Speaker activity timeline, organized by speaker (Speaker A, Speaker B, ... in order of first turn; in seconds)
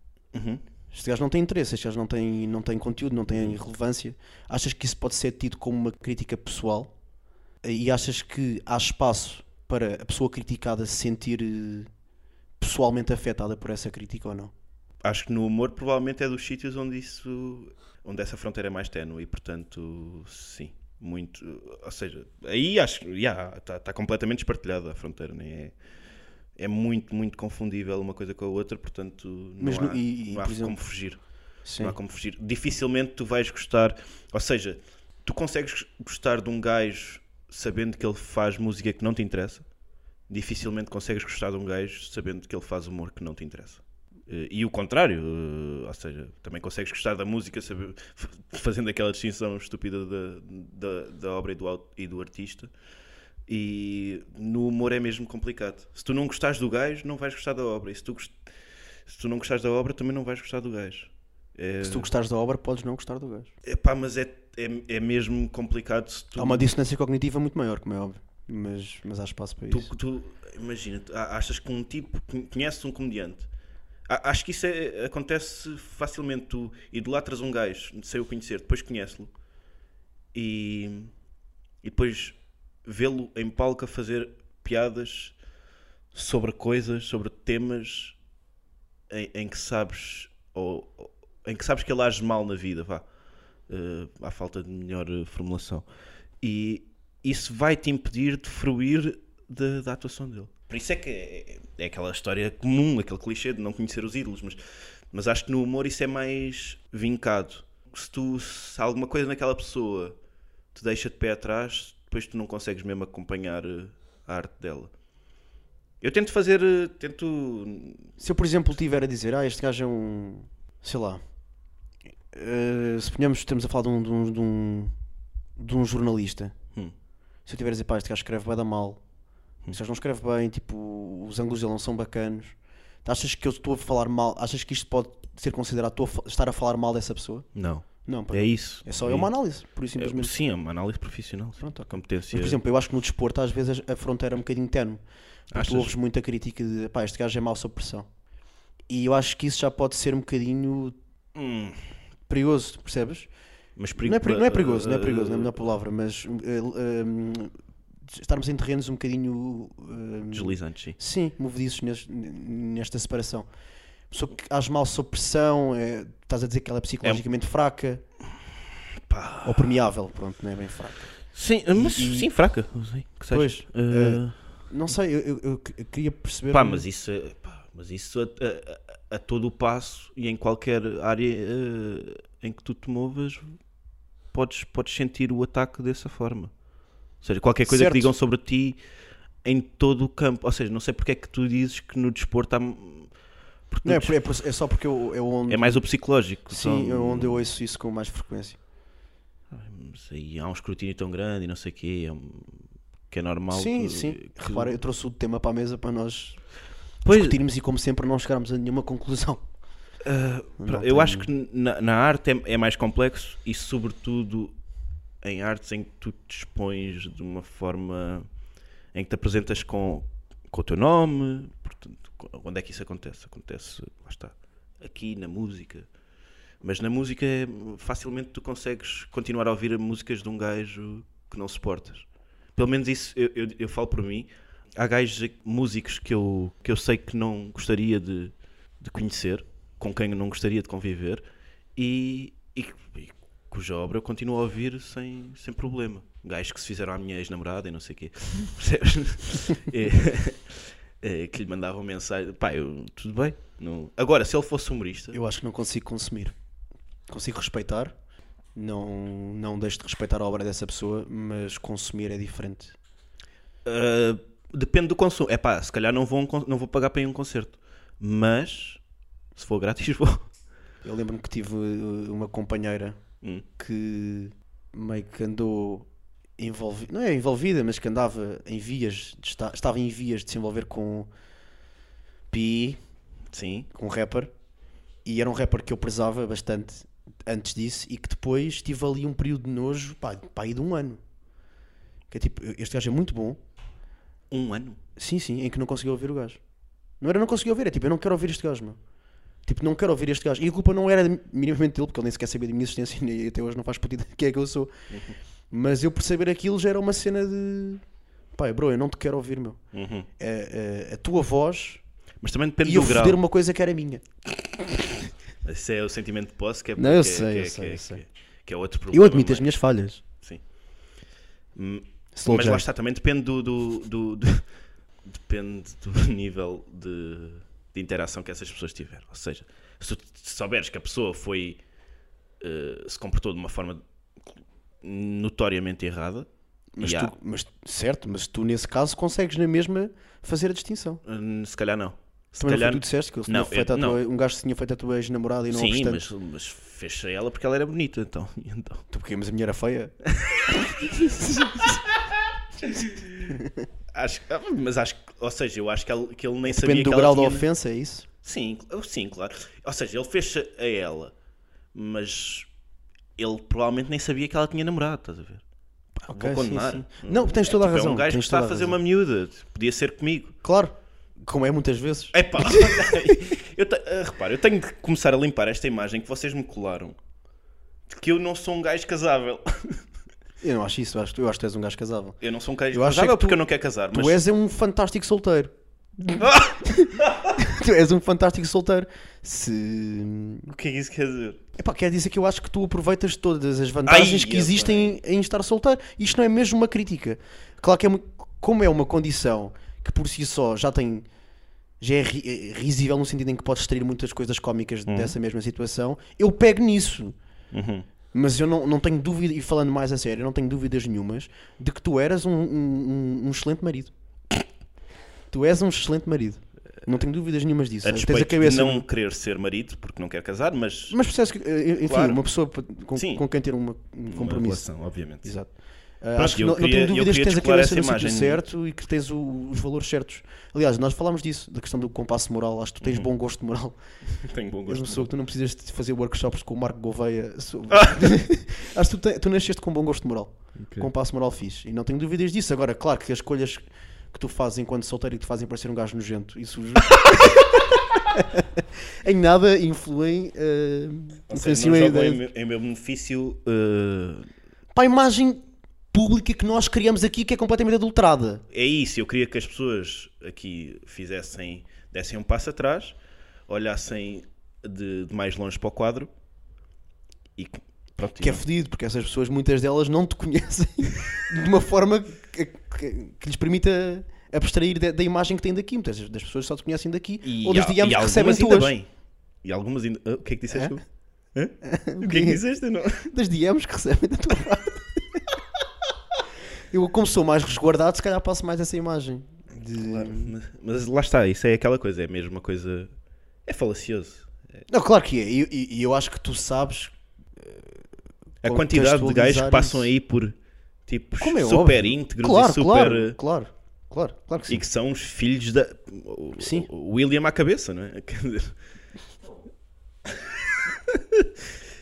Speaker A: 0.3-0.6, 15.0-25.8, 26.6-31.2, 31.8-39.6, 40.3-52.7, 53.5-58.4, 59.1-62.1, 63.6-66.7, 69.7-73.5, 74.1-79.3, 80.3-81.1, 81.8-85.3, 86.1-88.2, 89.1-93.0, 93.7-95.9, 96.4-104.6, 105.1-110.2, 110.7-114.9, 116.0-118.1, 137.5-139.3, 140.0-142.6, 145.5-145.9, 151.3-151.8, 153.8-155.7, 160.3-161.0, 169.0-169.8, 171.3-174.4, 176.5-183.6, 184.3-186.5, 187.2-188.8, 189.4-193.1, 193.7-194.2, 195.5-197.4, 199.5-204.7, 207.0-207.4, 210.0-214.5, 215.2-218.3, 218.9-225.9, 226.6-255.2, 263.6-268.8, 269.3-270.2, 283.3-283.7, 294.3-294.8, 304.9-305.2, 309.7-310.1, 312.2-313.2, 315.4-319.5, 321.5-324.5, 325.0-331.6, 332.4-333.8, 334.8-336.3, 336.8-337.1, 341.0-344.0, 345.5-348.8, 350.1-350.7, 352.6-353.2, 353.9-357.5, 358.2-361.1, 361.7-362.5, 363.2-365.4, 366.1-370.4, 372.1-377.0, 377.9-379.8, 382.2-384.2, 386.1-387.3, 390.5-391.4, 393.8-395.0, 404.9-405.1, 407.5-407.9, 417.8-421.0, 421.8-422.2, 422.9-423.2, 424.1-425.4, 426.1-428.4, 432.8-433.1, 434.1-435.1, 437.7-438.0, 440.6-440.9, 451.3-454.3, 458.5-463.0, 463.5-466.1, 467.4-468.4, 477.2-478.9, 479.4-480.8, 481.3-483.1, 489.8-492.9, 493.4-494.6, 498.4-500.4, 500.9-503.2, 504.5-508.6, 510.1-511.5
Speaker B: 0.9-6.9, 7.6-11.9, 12.6-14.5, 29.6-30.8, 31.6-31.9, 61.8-63.5, 66.3-69.9, 118.2-121.2, 122.3-124.9, 125.6-126.5, 127.5-129.0, 129.7-137.5, 138.0-140.3, 141.6-145.0, 145.5-148.1, 148.9-150.9, 152.3-153.3, 154.0-157.5, 158.1-163.5, 164.1-168.0, 169.4-171.1, 171.7-172.3, 173.3-176.8, 187.7-188.1, 193.8-195.9, 196.5-198.6, 203.5-206.4, 207.1-209.4, 210.6-211.3, 255.1-256.3, 257.1-257.9, 258.5-262.7, 270.8-273.0, 273.6-275.9, 276.4-281.1, 282.3-282.8, 283.7-284.3, 285.0-291.0, 292.1-293.4, 295.0-296.4, 297.0-298.8, 299.4-304.7, 305.5-307.8, 308.3-309.6, 310.2-311.8, 312.6-314.0, 316.8-318.0, 318.9-320.0, 322.1-322.7, 336.7-341.0, 342.4-346.0, 348.9-349.9, 350.6-351.8, 356.4-358.1, 366.0-368.8, 370.4-373.2, 380.4-382.2, 382.7-390.5, 391.6-401.0, 401.8-407.1, 408.1-413.9, 415.3-418.9, 420.9-433.8, 434.6-447.4, 448.1-448.4, 449.0-452.2, 454.7-458.4, 468.2-478.8, 480.5-480.8, 481.6-482.4, 483.1-485.3, 486.7-490.3, 494.7-497.6, 498.4-499.9, 501.2-504.6, 506.4-506.7